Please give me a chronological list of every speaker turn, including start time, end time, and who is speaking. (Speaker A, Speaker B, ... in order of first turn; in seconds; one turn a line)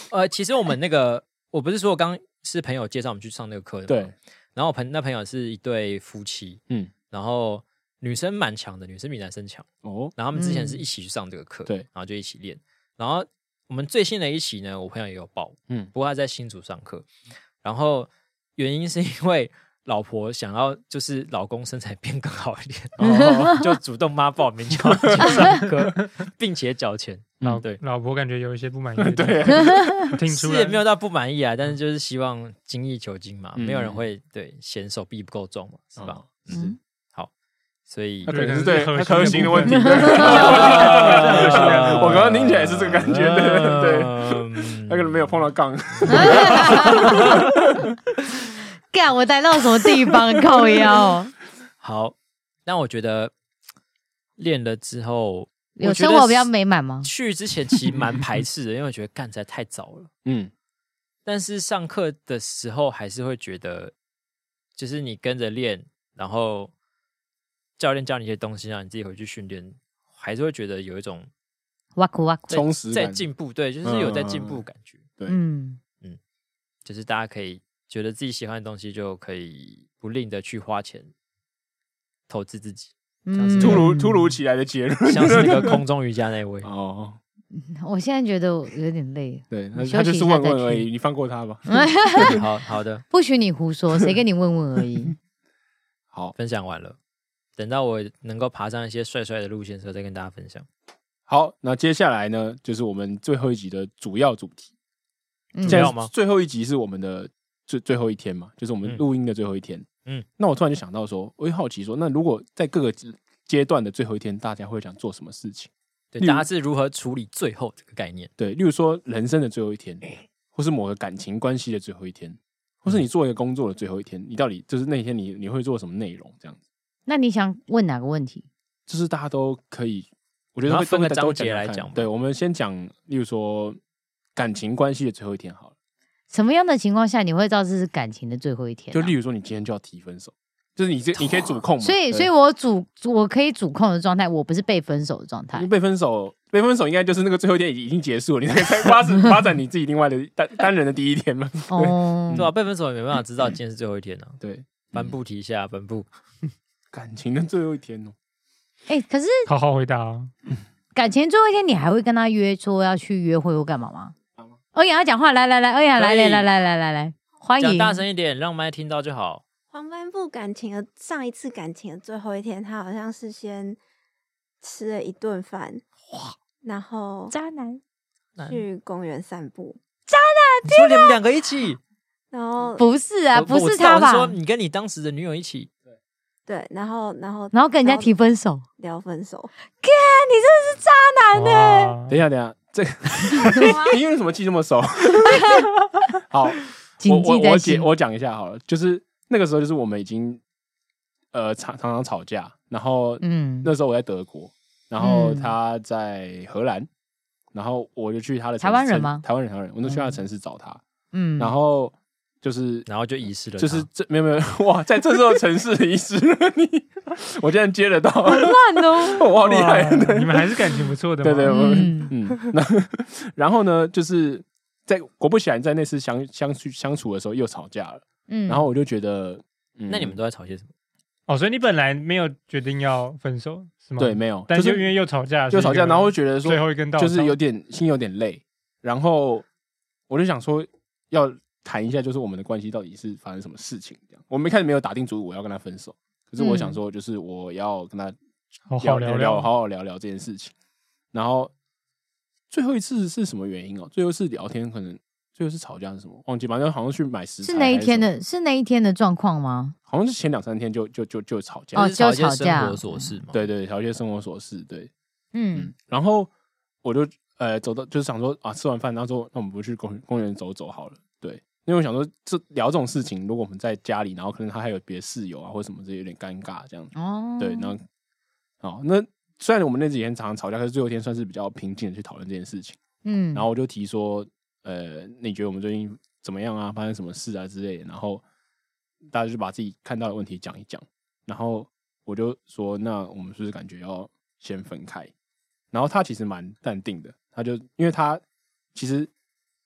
Speaker A: 0.1-17.1
Speaker B: 3.9-4.1
Speaker B: 9.8-10.1
Speaker C: 10.3-10.8
Speaker A: 17.6-27.8
Speaker B: 23.0-23.6
Speaker C: 23.1-23.5
Speaker B: 24.8-25.6
Speaker D: 27.4-30.8
Speaker B: 29.0-30.1
Speaker A: 30.3-37.3
Speaker B: 33.6-34.0
Speaker B: 36.0-36.3
Speaker C: 36.5-36.8
Speaker A: 37.9-38.4
Speaker B: 38.2-47.8
Speaker D: 38.3-42.2
Speaker A: 39.2-39.5
Speaker C: 39.9-40.1
Speaker A: 40.1-45.4
Speaker A: 46.0-47.4
Speaker C: 46.1-47.4
Speaker C: 48.9-51.3
Speaker B: 50.6-50.9
Speaker A: 51.8-52.1
Speaker A: 52.7-53.3
Speaker A: 54.4-56.5
Speaker C: 55.8-57.1
Speaker A: 57.0-60.1
Speaker B: 60.2-60.5
Speaker A: 61.3-63.9
Speaker A: 64.8-66.7
Speaker A: 67.8-71.3
Speaker C: 72.0-72.6
Speaker A: 72.5-75.0
Speaker B: 72.5-73.2
Speaker B: 73.8-74.6
Speaker C: 75.3-75.8
Speaker A: 76.8-81.1
Speaker A: 82.3-83.9
Speaker C: 83.3-84.1
Speaker B: 83.6-85.8
Speaker A: 85.1-86.7
Speaker B: 86.6-87.2
Speaker C: 87.5-90.9
Speaker B: 89.5-92.4
Speaker C: 91.7-92.4
Speaker A: 92.2-93.0
Speaker C: 93.1-95.2
Speaker A: 96.3-97.0
Speaker A: 97.6-100.7
Speaker B: 101.3-104.7
Speaker C: 105.5-105.9
Speaker B: 105.6-109.9
Speaker A: 105.7-106.1
Speaker B: 110.4-116.5
Speaker A: 116.1-118.3
Speaker B: 118.4-126.6
Speaker C: 127.1-128.5
Speaker B: 128.9-133.8
Speaker A: 130.7-132.1
Speaker B: 134.4-135.7
Speaker C: 136.3-139.1
Speaker B: 138.9-142.3
Speaker C: 141.8-145.7
Speaker B: 145.6-152.5
Speaker C: 151.7-152.5
Speaker A: 152.3-154.4
Speaker B: 154.4-155.2
Speaker A: 154.9-156.1
Speaker B: 156.9-158.1
Speaker C: 158.9-159.5
Speaker D: 159.5-160.3
Speaker C: 160.9-164.1
Speaker C: 164.8-168.0
Speaker A: 166.0-166.5
Speaker A: 167.6-169.4
Speaker E: 169.7-173.8
Speaker E: 174.6-175.8
Speaker E: 176.6-177.3
Speaker C: 177.3-177.8
Speaker A: 178.4-178.6
Speaker E: 178.4-179.8
Speaker C: 180.1-181.2
Speaker A: 180.7-181.8
Speaker E: 182.3-182.9
Speaker C: 182.8-184.4
Speaker A: 183.3-185.7
Speaker E: 186.5-188.1
Speaker C: 187.5-188.7
Speaker E: 188.8-189.5
Speaker C: 189.8-191.9
Speaker D: 191.3-192.2
Speaker B: 192.1-195.6
Speaker E: 193.6-194.0
Speaker B: 196.3-200.4
Speaker C: 197.0-197.9
Speaker B: 201.3-206.9
Speaker C: 203.2-203.7
Speaker C: 205.0-205.5
Speaker B: 207.5-210.8
Speaker C: 208.6-209.2
Speaker C: 209.8-210.2
Speaker C: 211.1-211.5
Speaker B: 211.4-212.9
Speaker A: 212.9-213.9
Speaker B: 213.6-230.2
Speaker C: 218.3-219.3
Speaker D: 219.4-221.9
Speaker C: 221.5-222.1
Speaker C: 228.3-228.7
Speaker A: 229.9-230.7
Speaker D: 231.3-237.3
Speaker B: 234.0-234.9
Speaker B: 235.5-239.5
Speaker B: 240.1-248.2
Speaker C: 246.4-246.8
Speaker D: 248.7-249.5
Speaker B: 248.8-250.5
Speaker B: 251.1-251.5
Speaker B: 252.5-258.1
Speaker C: 257.4-259.8
Speaker B: 259.9-261.9
Speaker C: 261.7-263.2
Speaker A: 261.8-263.5
Speaker B: 263.3-264.9
Speaker C: 265.3-265.7
Speaker B: 265.6-266.3
Speaker B: 266.8-277.8
Speaker C: 276.9-277.8
Speaker B: 278.6-282.8
Speaker C: 283.1-283.5
Speaker B: 283.3-288.2
Speaker B: 289.1-295.1
Speaker B: 295.7-298.2
Speaker B: 298.8-299.1